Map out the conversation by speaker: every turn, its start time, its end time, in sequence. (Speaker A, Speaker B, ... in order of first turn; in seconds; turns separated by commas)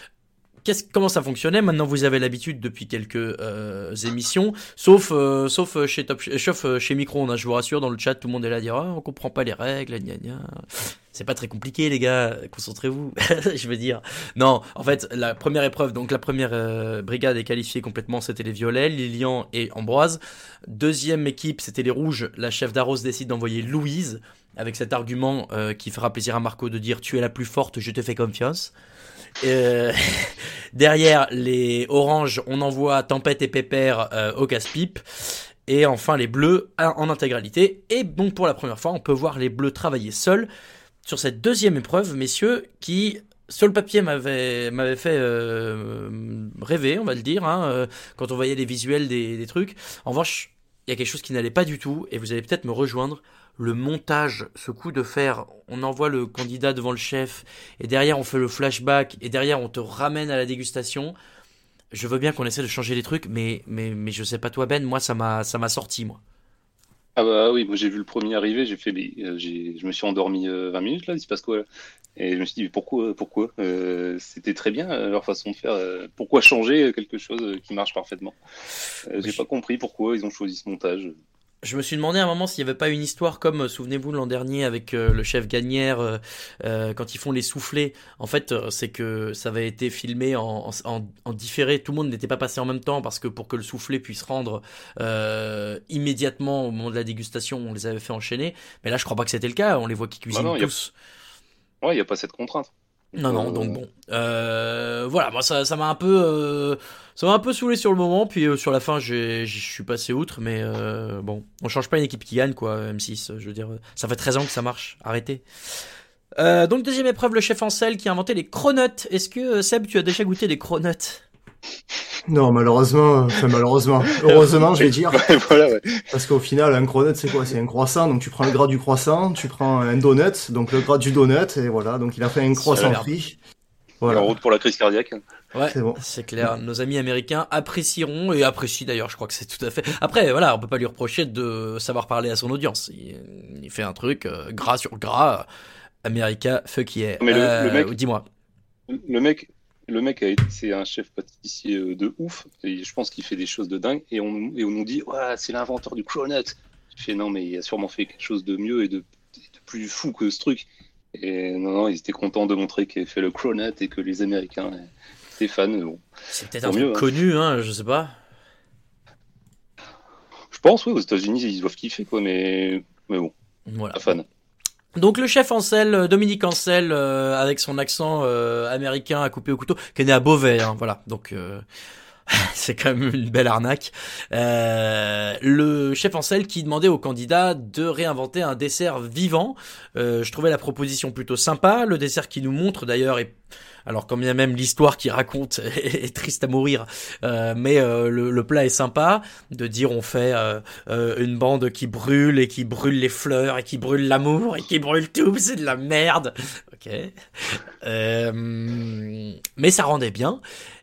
Speaker A: 0.7-28.7, Speaker A: 29.4-40.5, Speaker A: 41.0-61.2, Speaker A: 61.9-66.2, Speaker B: 67.2-71.7, Speaker B: 72.2-78.4, Speaker B: 79.1-81.2, Speaker A: 81.6-100.9, Speaker B: 100.3-100.7, Speaker B: 101.8-103.8, Speaker A: 103.2-115.4, Speaker A: 116.4-121.2, Speaker C: 122.3-125.2, Speaker B: 125.1-126.0, Speaker C: 126.1-133.4, Speaker A: 132.5-133.1, Speaker C: 134.0-134.3, Speaker B: 134.1-135.2, Speaker A: 135.5-145.5, Speaker C: 135.7-136.5, Speaker A: 146.0-148.3, Speaker B: 147.2-147.9, Speaker B: 148.9-159.0, Speaker B: 159.6-166.0, Speaker A: 166.3-168.2, Speaker B: 166.7-167.0, Speaker B: 170.5-173.3, Speaker A: 173.7-174.2, Speaker B: 174.0-174.2, Speaker A: 175.0-181.6, Speaker A: 182.3-193.3, Speaker A: 193.9-210.4